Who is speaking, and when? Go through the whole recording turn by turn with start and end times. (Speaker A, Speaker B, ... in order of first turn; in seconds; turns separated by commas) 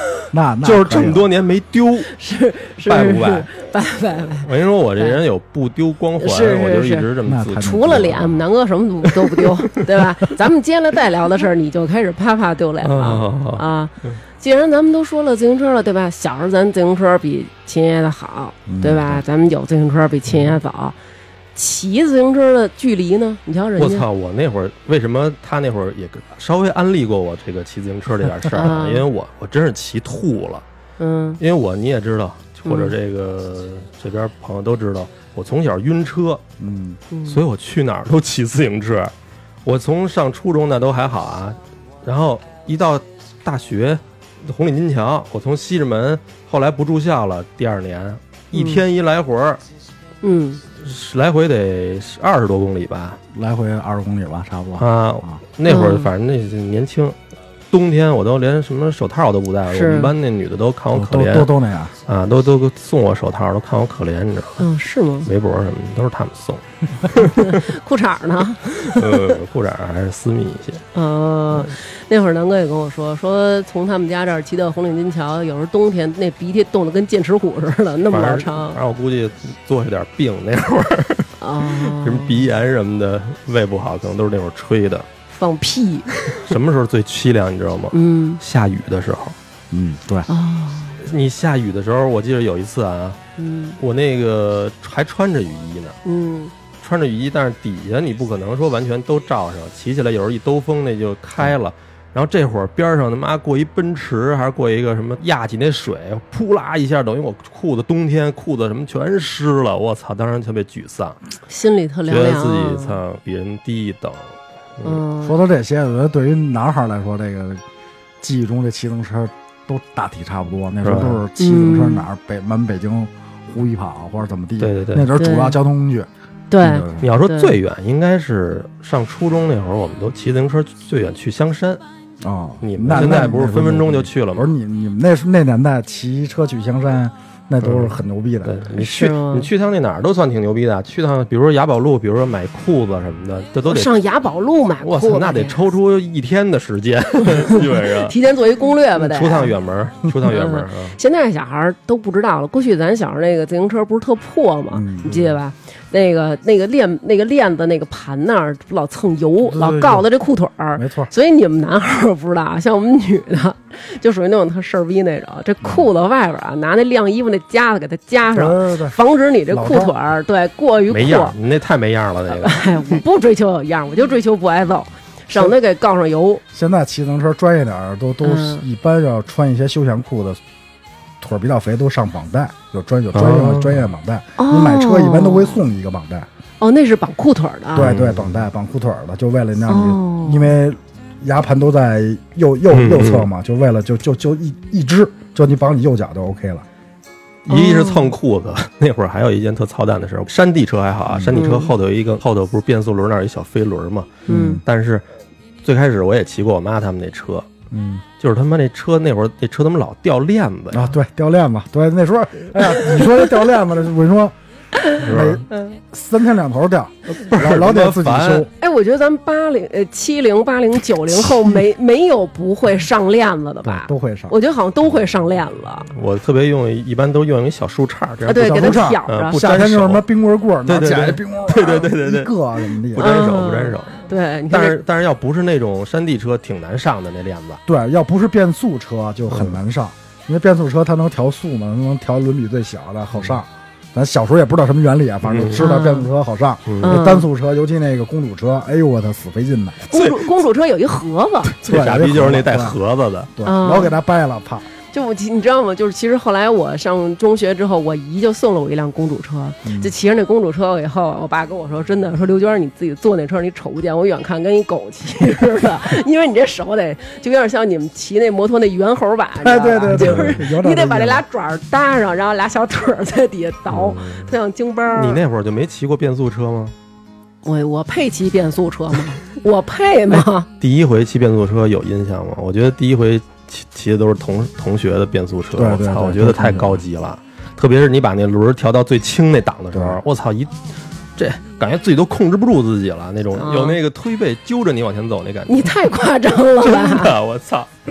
Speaker A: 0.3-1.3, Speaker B: 0.6-2.1, Speaker C: 2.1-5.2, Speaker B: 2.8-3.5, Speaker B: 4.4-8.3, Speaker C: 6.2-7.1, Speaker A: 7.2-8.3, Speaker C: 7.6-20.9, Speaker B: 12.8-14.2, Speaker A: 18.7-19.2, Speaker C: 21.5-24.1, Speaker B: 23.8-30.6, Speaker C: 28.6-29.1, Speaker C: 31.0-31.4, Speaker B: 31.4-36.4, Speaker C: 32.6-32.9, Speaker A: 36.6-37.0, Speaker C: 37.1-37.4, Speaker B: 37.2-39.1, Speaker B: 39.6-49.6, Speaker C: 48.5-48.8, Speaker C: 50.2-50.6, Speaker B: 50.8-53.2, Speaker A: 53.3-55.4, Speaker B: 54.8-57.1, Speaker C: 55.6-56.1, Speaker B: 57.7-61.5, Speaker C: 59.7-60.1, Speaker A: 60.9-61.9, Speaker B: 62.1-64.7, Speaker C: 64.6-65.3, Speaker B: 65.2-67.7, Speaker C: 67.2-69.3, Speaker B: 68.9-70.8, Speaker C: 70.9-78.8, Speaker B: 78.1-85.1, Speaker C: 81.4-82.4, Speaker C: 85.3-86.1, Speaker B: 86.3-89.3, Speaker C: 87.9-88.4, Speaker A: 89.7-90.3, Speaker C: 90.3-91.0, Speaker B: 91.0-93.2, Speaker C: 93.4-93.8, Speaker B: 93.8-96.0, Speaker C: 96.0-96.5, Speaker B: 96.8-111.2, Speaker C: 111.5-113.0, Speaker B: 112.1-115.0, Speaker C: 114.8-115.4, Speaker A: 115.2-117.6, Speaker A: 118.2-126.1, Speaker B: 120.8-121.2, Speaker C: 121.4-122.0, Speaker B: 124.6-125.1, Speaker C: 125.1-125.6, Speaker C: 126.5-127.5, Speaker B: 126.7-131.8, Speaker A: 126.7-127.0, Speaker A: 132.2-138.6, Speaker B: 132.6-134.5, Speaker B: 137.6-143.9, Speaker C: 138.7-139.5, Speaker C: 143.7-145.6, Speaker B: 144.8-148.2, Speaker C: 147.2-149.5, Speaker B: 149.0-151.0, Speaker C: 150.2-171.3, Speaker A: 154.7-155.3, Speaker A: 159.5-160.0, Speaker A: 160.8-161.1, Speaker A: 168.3-169.0, Speaker A: 169.5-169.9, Speaker B: 170.9-173.0, Speaker C: 172.3-176.4, Speaker A: 176.5-180.4, Speaker C: 178.2-178.6, Speaker A: 181.2-186.3, Speaker B: 183.1-183.9, Speaker C: 184.4-185.6, Speaker C: 186.6-187.9, Speaker A: 187.8-196.6, Speaker B: 187.8-188.4, Speaker C: 189.7-190.5, Speaker B: 192.7-193.3, Speaker B: 197.4-205.0, Speaker C: 197.5-198.1, Speaker A: 201.1-201.4, Speaker C: 201.3-201.7, Speaker A: 204.3-204.6, Speaker C: 204.3-204.6, Speaker B: 205.6-207.5, Speaker A: 207.7-208.0, Speaker B: 208.2-210.9, Speaker A: 210.7-214.3, Speaker A: 215.0-218.5, Speaker B: 215.0-215.4, Speaker B: 217.2-218.5, Speaker C: 218.6-225.9, Speaker A: 223.7-224.3, Speaker B: 225.9-230.1, Speaker C: 228.2-229.4, Speaker A: 228.4-233.1, Speaker B: 230.7-232.3, Speaker B: 232.9-237.6, Speaker C: 233.0-234.8, Speaker A: 237.7-249.9, Speaker B: 239.3-239.6, Speaker B: 245.2-245.6, Speaker C: 245.6-246.1, Speaker B: 246.7-247.0, Speaker C: 246.8-247.2, Speaker C: 249.9-251.5, Speaker B: 249.9-250.2, Speaker B: 251.5-253.3, Speaker A: 251.6-252.8, Speaker A: 253.3-254.7, Speaker C: 253.4-253.9, Speaker C: 254.9-275.2, Speaker A: 259.6-259.9, Speaker A: 269.4-271.2, Speaker B: 269.9-270.3, Speaker B: 273.7-274.3, Speaker B: 274.9-276.7, Speaker C: 277.4-280.4, Speaker B: 280.1-290.5, Speaker A: 285.5-286.8, Speaker A: 289.7-290.0, Speaker B: 291.2-295.8, Speaker C: 293.3-293.8, Speaker C: 295.5-297.1, Speaker B: 296.6-297.7